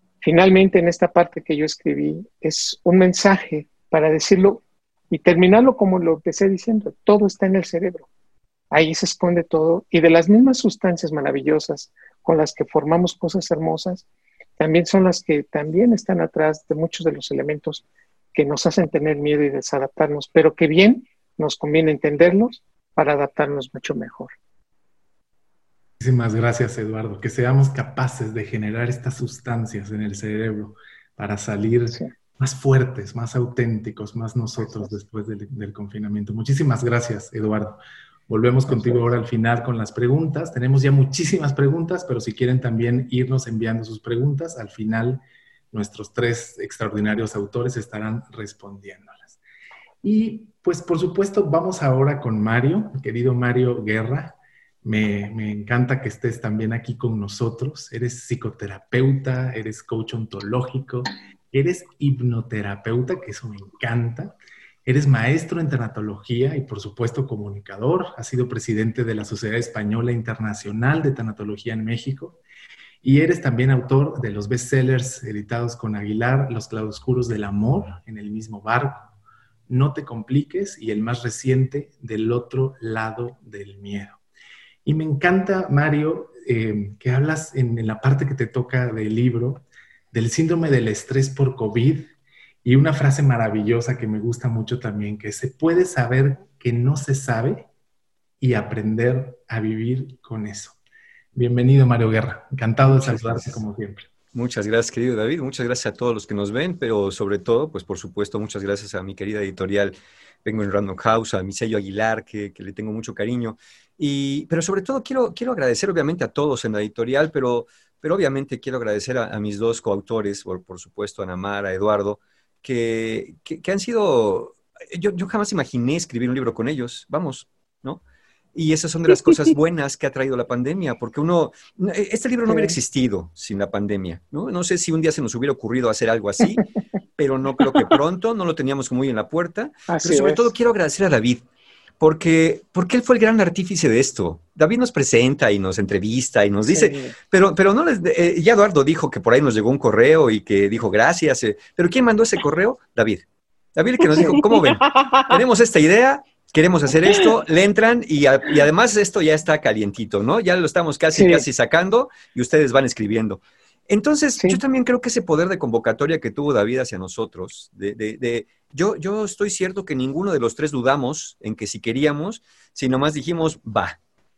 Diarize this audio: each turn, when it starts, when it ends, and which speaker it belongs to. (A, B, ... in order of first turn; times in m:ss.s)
0:00.2-0:08.1 A
0:08.7-0:14.0 A
0:14.6-0:24.3 A
0:26.0-0:49.4 B
0:38.7-0:39.1 A
0:50.0-1:12.4 B
1:13.0-1:19.1 B
1:19.7-1:24.2 B
1:24.8-1:32.1 B
1:32.6-1:37.7 B
1:38.4-1:40.8 B
1:41.3-1:44.0 B
1:42.8-1:43.6 C
1:44.3-2:08.0 C
2:08.5-2:16.6 C
2:12.5-2:12.8 A
2:17.2-2:21.4 C
2:19.9-2:20.5 A
2:22.0-2:54.0 C
2:26.7-2:27.1 A
2:41.1-2:41.4 A